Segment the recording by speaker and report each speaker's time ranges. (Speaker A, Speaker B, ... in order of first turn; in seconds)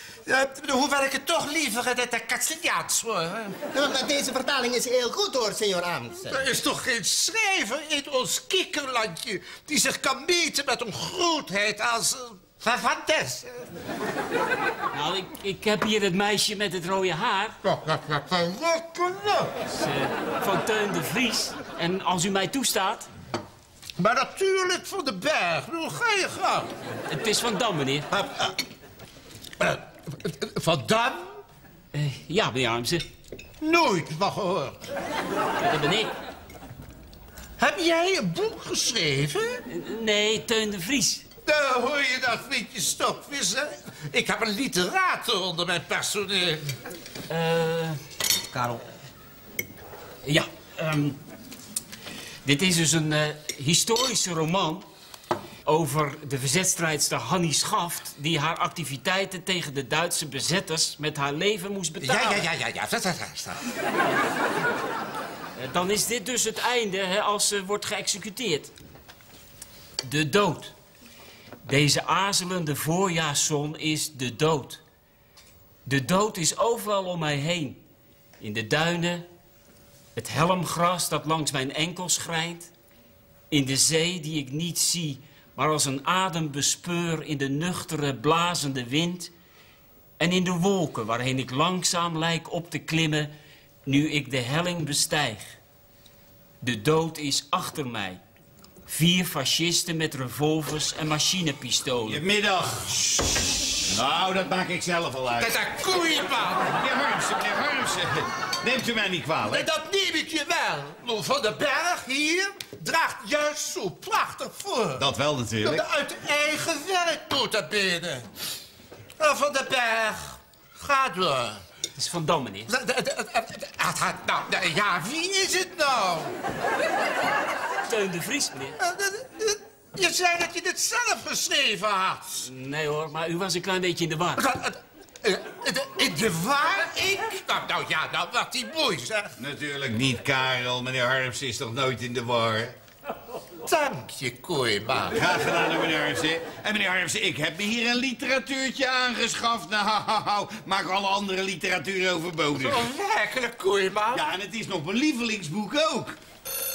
Speaker A: 0.3-3.6, 6.3-13.5, 17.6-19.6, 24.0-26.7, 28.1-28.5, 29.6-31.4, 33.6-34.8, 37.6-39.6, 41.4-46.7, 62.0-63.6, 105.4-106.7, 109.5-115.0, 115.6-118.3, 119.2-121.6, 122.7-126.3, 128.8-132.4, 134.3-139.3, 143.6-145.2, 152.5-154.2
Speaker B: 3.7-6.4
Speaker C: 14.9-17.6, 19.7-23.1, 27.1-28.1, 31.9-33.1, 35.6-36.1, 39.7-41.2, 47.3-48.0, 50.2-51.2, 52.4-54.9, 55.6-62.4, 65.6-68.7, 70.0-70.7, 71.6-74.8, 75.8-77.8, 78.4-79.3, 80.2-82.7, 83.5-89.3, 90.2-93.3, 93.8-95.6, 96.6-98.2, 98.9-102.2, 122.0-122.7, 127.8-128.8, 132.4-134.4
Speaker D: 102.1-105.6, 106.7-109.7, 115.0-115.8, 139.4-142.7, 145.1-152.9, 154.1-156.2